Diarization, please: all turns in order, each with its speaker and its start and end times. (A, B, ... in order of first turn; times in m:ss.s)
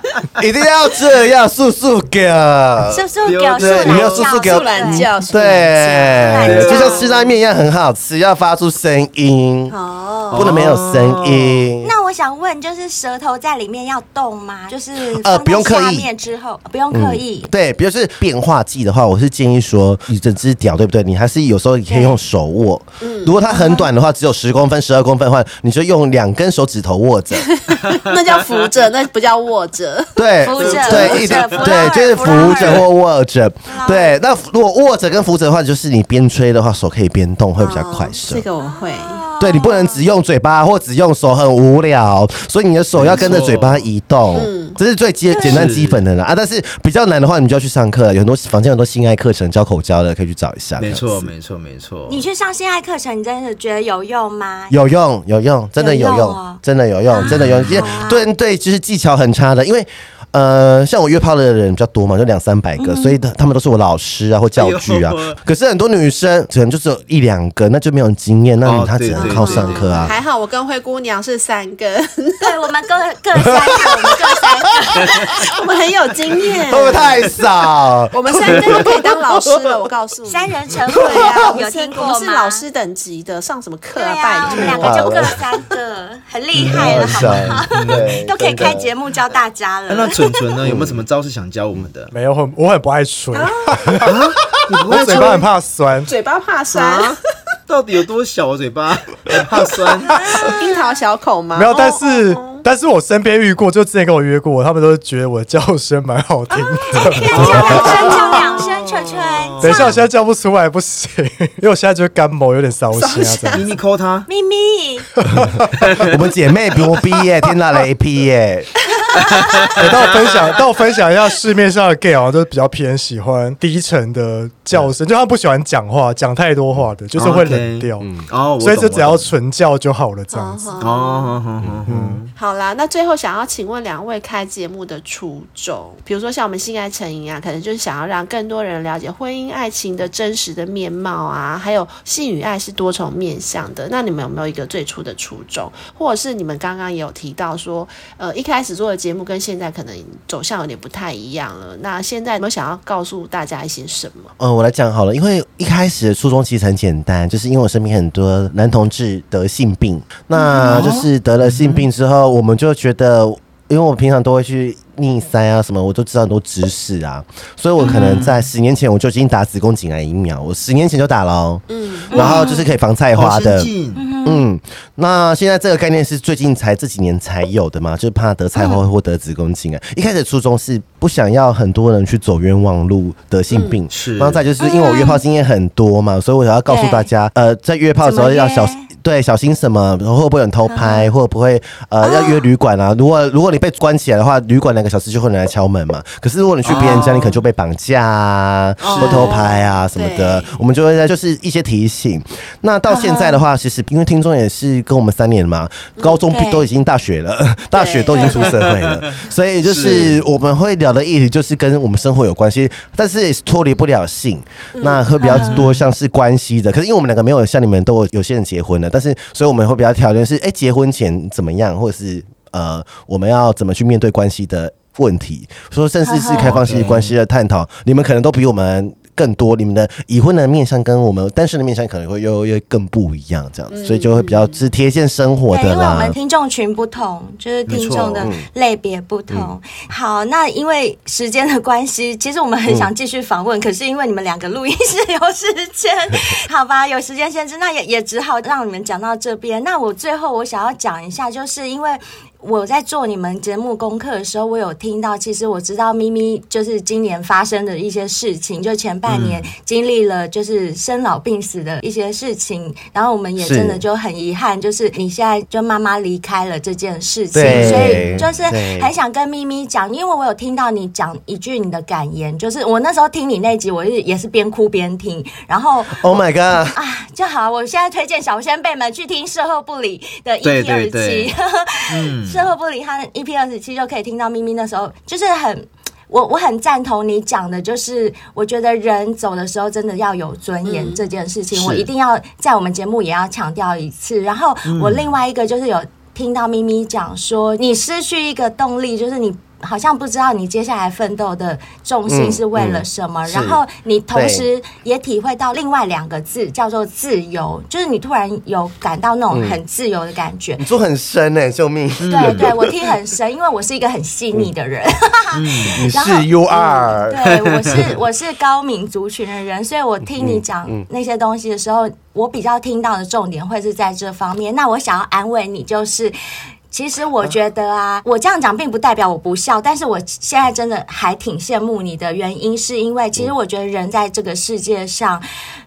0:00.4-0:09.8 A
0:02.9-0:05.1 B
0:03.2-0:04.2 C
0:03.9-0:07.3 D
0:06.1-0:07.1 B
0:06.4-0:07.1 C
0:09.7-0:10.5 D
0:10.3-0:11.7 C
0:10.3-0:11.9 A
0:11.8-0:17.5 B
0:15.0-0:16.1 A
0:16.9-0:27.6 A
0:21.9-0:22.2 B
0:23.0-0:23.4 D
0:23.5-0:23.9 B
0:27.5-0:31.6 D
0:30.2-0:38.5 A
0:30.4-0:32.9 B
0:30.6-0:31.8 C
0:32.4-0:32.9 C
0:33.7-0:34.2 B
0:37.6-0:39.2 D
0:38.6-0:40.0 B
0:39.4-0:51.3 A
0:42.9-0:43.9 C
0:44.3-0:44.8 D
0:45.3-0:45.6 B
0:45.4-0:46.0 C
0:50.8-0:52.2 C
0:52.1-0:54.8 B
0:54.7-1:10.2 A
0:55.8-0:58.3 B
0:57.2-0:57.8 C
1:02.8-1:03.2 B
1:04.6-1:05.4 C
1:08.6-1:10.1 C
1:09.2-1:12.6 D
1:12.4-1:15.3 B
1:15.2-1:17.3 D
1:16.7-1:19.5 A
1:18.1-1:25.1 D
1:20.3-1:22.6 B
1:24.0-1:30.3 B
1:24.7-1:25.4 A
1:26.6-1:28.1 C
1:26.6-1:28.9 A
1:29.9-1:32.1 C
1:30.6-1:31.0 A
1:32.1-1:34.2 E
1:33.3-1:33.9 D
1:34.0-1:35.5 C
1:34.9-1:36.1 E
1:35.0-1:35.4 D
1:36.1-1:37.2 D
1:36.7-1:37.2 C
1:37.7-1:40.2 C
1:39.3-1:42.6 D
1:40.1-1:41.0 B
1:41.5-1:47.6 E
1:46.6-1:48.7 D
1:46.9-1:50.0 B
1:47.3-1:50.0 C
1:49.6-1:53.7 E
1:52.9-1:53.7 D
1:53.5-1:54.3 C
1:54.3-1:55.1 B
1:55.2-1:55.7 E
1:55.4-1:58.7 A
1:55.8-1:56.1 C
1:59.0-1:59.6 B
1:59.2-2:00.0 C
1:59.7-2:10.8 E
2:07.2-2:09.3 C
2:08.0-2:08.2 A
2:10.3-2:11.4 D
2:10.8-2:12.3 C
2:11.9-2:12.2 E
2:12.3-2:34.3 D
2:34.4-2:53.7 A
2:40.3-2:40.8 B
2:40.7-2:41.9 C
2:47.8-2:48.2 B
2:47.8-2:48.5 C
2:51.7-2:52.5 D
2:52.1-2:52.7 B
2:53.1-2:54.1 C
2:54.0-2:54.4 B
2:54.2-3:56.2 A
2:58.6-2:58.8 B
3:03.5-3:03.8 D
3:03.9-3:04.4 C
3:04.6-3:05.2 B
3:06.7-3:07.1 B
3:08.0-3:08.9 B
3:10.7-3:11.1 B
3:12.0-3:12.5 B
3:16.6-3:17.4 C
3:16.7-3:17.1 D
3:18.8-3:20.6 D
3:18.8-3:19.4 C
3:22.9-3:23.3 B
3:23.0-3:23.2 D
3:26.3-3:26.7 B
3:27.7-3:28.6 D
3:28.1-3:28.6 B
3:28.6-3:30.2 C
3:29.8-3:30.1 D
3:34.8-3:35.6 D
3:35.2-3:35.7 B
3:35.4-3:35.8 C
3:46.0-3:46.6 B
3:46.3-3:47.1 C
3:53.7-3:54.6 D
3:55.5-4:36.2 B
3:57.7-3:58.3 C
3:58.2-3:58.5 A
4:02.7-4:02.9 A
4:19.1-4:19.5 C
4:23.4-4:23.8 A
4:27.3-4:28.9 A
4:27.4-4:28.2 C
4:35.9-4:36.8 A
4:36.7-5:10.7 B
4:40.4-4:41.3 C
4:41.9-4:42.5 C
4:50.7-4:51.0 D
4:51.5-4:51.9 C
4:54.7-4:55.1 C
5:02.1-5:03.6 A
5:04.1-5:04.5 A
5:09.3-5:09.6 A
5:10.6-5:12.7 A
5:12.0-5:12.5 C
5:12.1-5:26.2 B
5:15.4-5:15.8 C
5:15.7-5:17.2 A
5:17.4-5:17.8 C
5:20.2-5:20.9 A
5:26.7-5:35.2 B